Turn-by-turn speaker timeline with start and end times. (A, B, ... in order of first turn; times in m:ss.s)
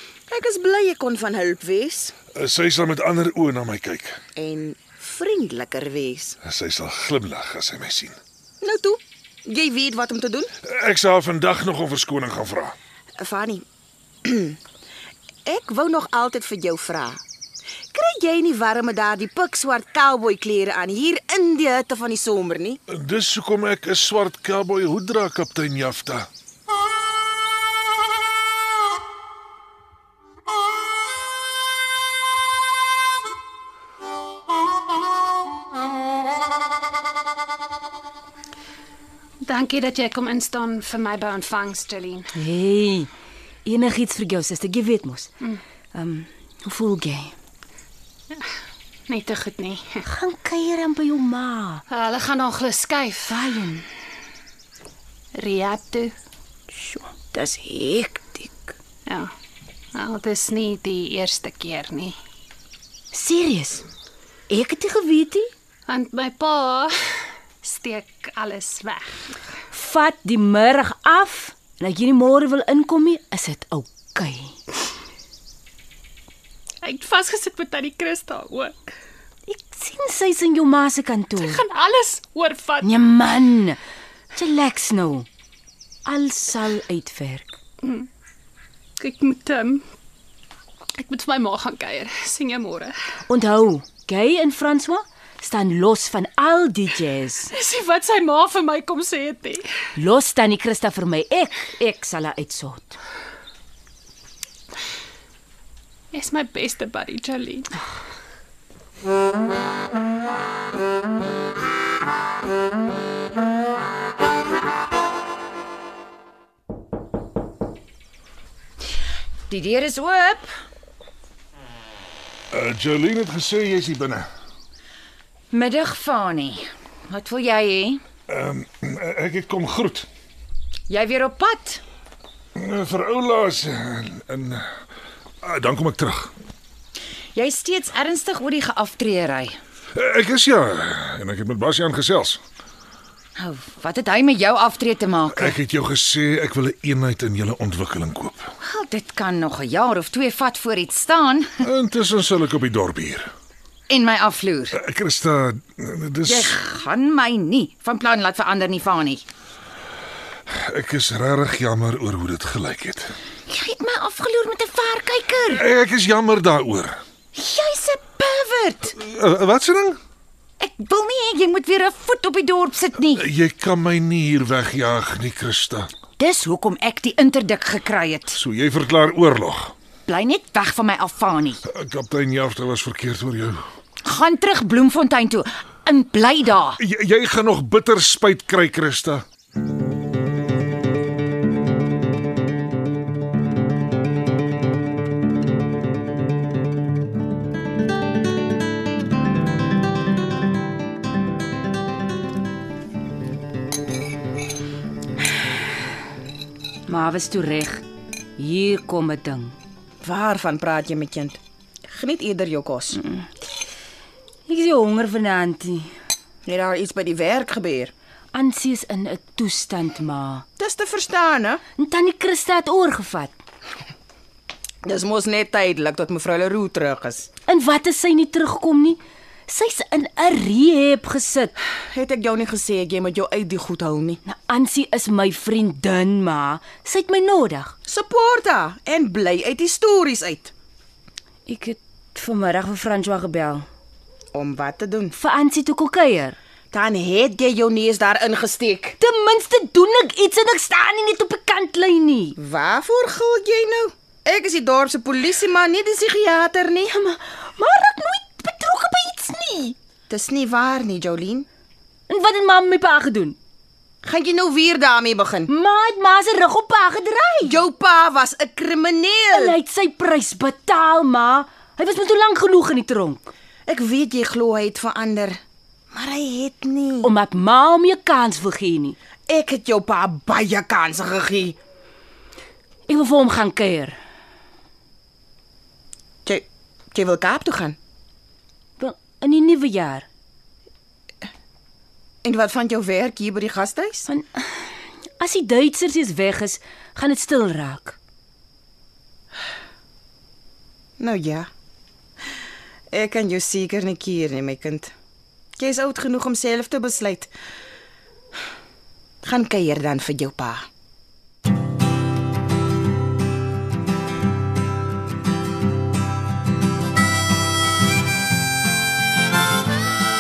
0:00.3-0:02.1 A
0:02.4-0:04.2 B
0:04.4-0:06.4 A
0:06.4-0:08.2 B
0:08.6-0:10.5 A
0:10.7-0:12.8 B
0:13.2-0:13.6 A
0:14.2-0:14.6 A
0:15.4-0:17.2 A
0:17.9-0:22.8 A
0:22.9-0:26.3 B
0:39.4-0:42.3 C
0:42.4-0:43.1 D
0:43.6-0:45.3 D
0:45.9-0:47.3 D
0:49.1-0:50.0 C
0:50.1-0:51.8 D
0:51.9-0:53.4 C
0:53.3-0:53.9 D
0:55.4-0:56.2 C
0:56.7-0:58.7 D
0:59.1-0:59.3 C
0:59.9-1:02.2 C
1:03.1-1:03.8 D
1:04.5-1:05.5 D
1:05.9-1:09.2 C
1:09.7-1:14.6 D
1:16.8-1:18.8 C
1:19.5-1:21.6 D
1:21.4-1:22.9 C
1:22.8-1:23.8 D
1:24.4-1:25.3 D
1:26.0-1:27.5 D
1:29.0-1:29.8 C
1:31.0-1:33.0 C
1:33.3-1:37.5 D
1:37.5-1:39.6 C
1:40.0-1:43.0 D
1:46.1-1:47.7 C
1:59.5-2:00.5 E
2:02.5-2:04.3 B
2:05.5-2:08.0 E
2:08.3-2:10.1 B
2:10.9-2:11.8 E
2:12.6-2:14.7 B
2:15.4-2:16.3 B
2:17.4-2:19.6 E
2:20.0-2:22.4 B
2:23.4-2:25.6 E
2:25.3-2:28.5 B
2:28.6-2:31.7 E
2:31.6-2:33.3 B
2:33.9-2:34.8 E
2:34.7-2:36.6 B
2:36.2-2:39.2 E
2:40.5-2:43.1 B
2:43.5-2:45.7 E
2:45.5-2:47.0 B
2:47.4-2:49.0 E
2:49.0-2:50.0 B
2:50.6-2:53.2 E
2:53.1-2:55.9 B
2:56.2-2:58.4 E
2:58.3-2:59.7 B
3:00.1-3:01.6 E
3:01.7-3:03.6 B
3:04.0-3:06.8 E
3:06.8-3:09.2 B
3:26.9-3:27.8 D
3:28.4-3:29.6 D
3:30.0-3:31.4 A
3:31.9-3:33.0 A
3:33.0-3:33.3 D
3:34.5-3:35.9 D
3:36.5-3:37.9 A
3:38.3-3:40.4 D
3:40.6-3:41.6 A
3:41.8-3:43.3 D
3:44.8-3:47.3 A
3:47.5-3:51.5 D
3:51.9-3:54.2 A
3:54.2-3:57.7 D
3:57.9-4:00.5 A
4:01.5-4:03.7 D
4:04.3-4:05.1 A
4:05.1-4:06.4 D
4:06.7-4:09.0 A
4:09.0-4:12.4 D
4:12.4-4:16.9 A
4:16.9-4:19.8 D
4:20.1-4:21.5 A
4:22.1-4:23.4 D
4:24.0-4:25.5 A
4:25.5-4:27.6 D
4:27.4-4:29.6 A
4:29.3-4:33.3 D
4:33.7-4:35.4 A
4:35.9-4:37.1 A
4:37.0-4:39.0 D
4:39.3-4:41.6 A
4:42.9-4:44.0 D
4:46.3-4:47.8 A
4:48.8-4:50.1 D
4:52.2-4:54.1 A
4:54.1-4:54.6 D
4:55.2-4:58.0 D
5:01.0-5:01.5 A
5:02.9-5:04.9 A
5:05.6-5:07.3 A
5:09.2-5:10.7 A